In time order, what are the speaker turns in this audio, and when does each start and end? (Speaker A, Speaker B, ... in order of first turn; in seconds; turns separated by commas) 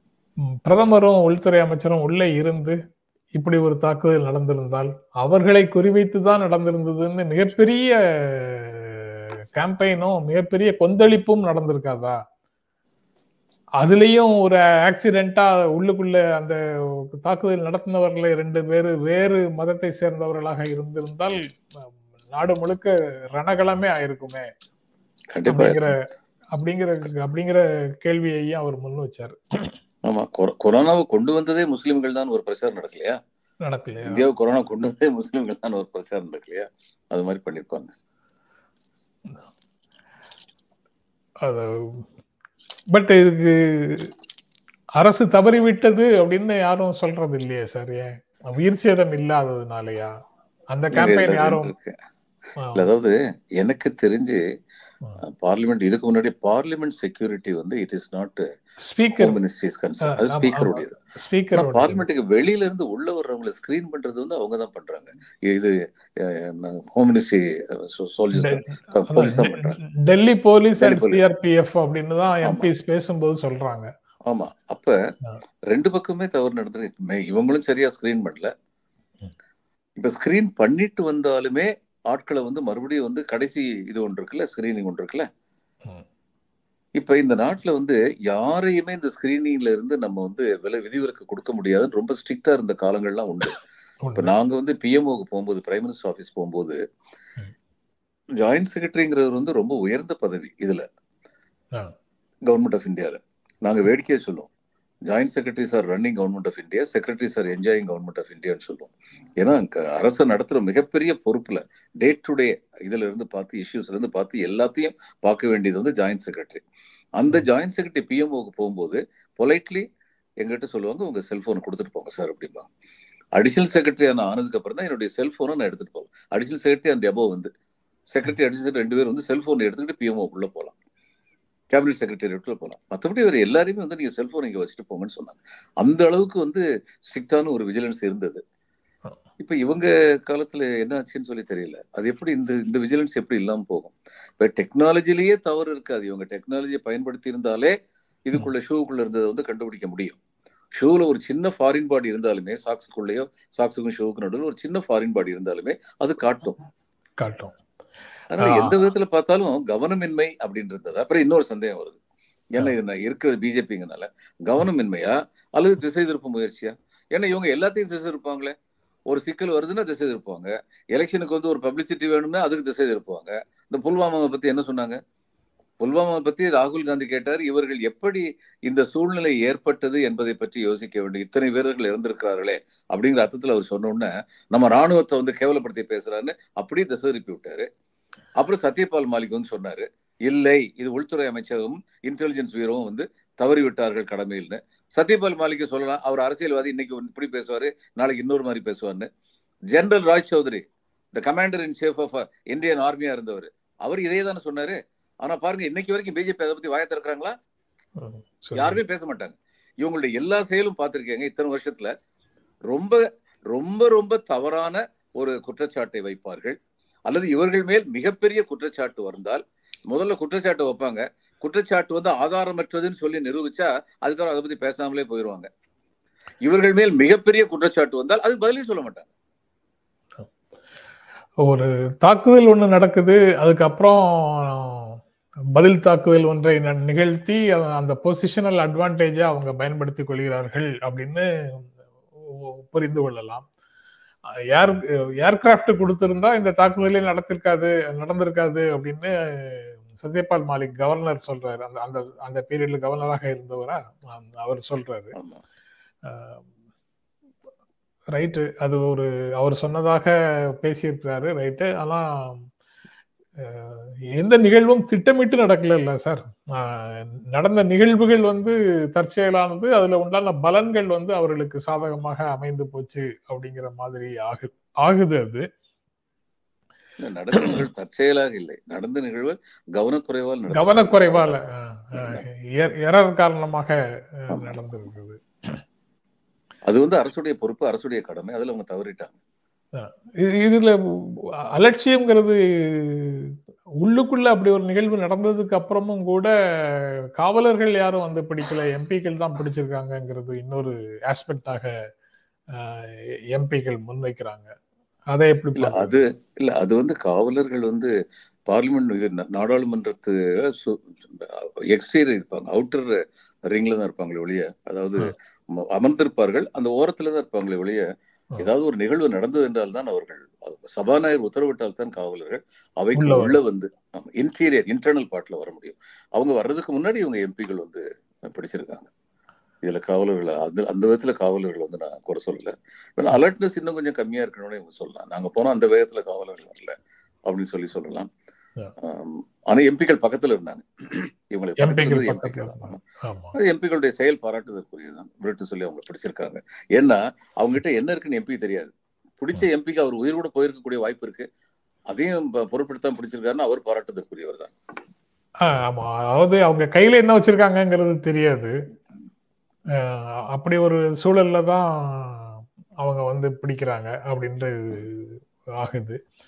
Speaker A: 0.7-2.8, Speaker A: 3.4-12.2, Speaker A: 13.8-21.4, Speaker A: 22.3-24.5, Speaker B: 25.3-25.9, Speaker A: 25.5-26.0, Speaker A: 26.6-29.7, Speaker B: 30.1-33.2, Speaker A: 33.7-34.3, Speaker B: 34.0-37.9, Speaker A: 41.4-42.1, Speaker A: 42.9-44.1, Speaker A: 45.0-50.1, Speaker A: 50.7-51.7, Speaker B: 50.9-52.0, Speaker A: 52.6-52.9, Speaker B: 52.8-54.4, Speaker B: 55.2-58.5, Speaker A: 58.9-59.4, Speaker B: 59.1-61.0, Speaker A: 60.0-62.0, Speaker B: 61.5-69.8, Speaker A: 68.3-73.9, Speaker B: 70.8-71.2, Speaker B: 74.3-75.0, Speaker B: 75.7-78.5, Speaker B: 80.0-85.3, Speaker B: 87.0-93.6, Speaker A: 94.0-94.3, Speaker B: 94.2-96.8, Speaker B: 98.4-100.8, Speaker B: 102.5-104.5, Speaker B: 105.1-116.6, Speaker B: 117.2-119.9, Speaker B: 120.4-122.7, Speaker B: 123.4-127.5, Speaker B: 128.1-130.8, Speaker B: 131.7-138.4, Speaker B: 139.4-147.7, Speaker B: 148.3-150.2, Speaker B: 150.8-156.6, Speaker A: 157.2-157.6, Speaker B: 158.3-162.0, Speaker A: 158.4-158.8, Speaker B: 162.5-168.6, Speaker B: 169.1-175.0, Speaker B: 175.8-187.7, Speaker B: 188.4-199.1, Speaker B: 199.7-207.3, Speaker A: 208.0-208.8, Speaker B: 208.5-211.9, Speaker B: 212.7-225.5, Speaker B: 226.5-229.1, Speaker A: 231.4-235.0, Speaker A: 235.6-241.6, Speaker A: 242.3-243.4, Speaker A: 244.5-255.2, Speaker B: 255.2-255.4, Speaker A: 256.1-256.4, Speaker A: 258.1-262.5, Speaker A: 263.4-275.5, Speaker B: 277.0-281.4, Speaker A: 280.5-285.6, Speaker B: 281.9-282.2, Speaker B: 284.3-284.6, Speaker B: 286.7-289.2, Speaker A: 289.8-301.7, Speaker A: 302.5-304.5, Speaker A: 305.1-305.9, Speaker B: 305.6-307.9, Speaker B: 308.5-317.9, Speaker B: 318.4-328.9, Speaker A: 323.0-323.4, Speaker B: 329.6-336.8, Speaker B: 337.3-338.1, Speaker B: 338.8-342.8, Speaker A: 341.6-343.4, Speaker B: 343.4-351.3, Speaker B: 351.9-354.5, Speaker A: 355.4-358.5, Speaker A: 359.8-366.0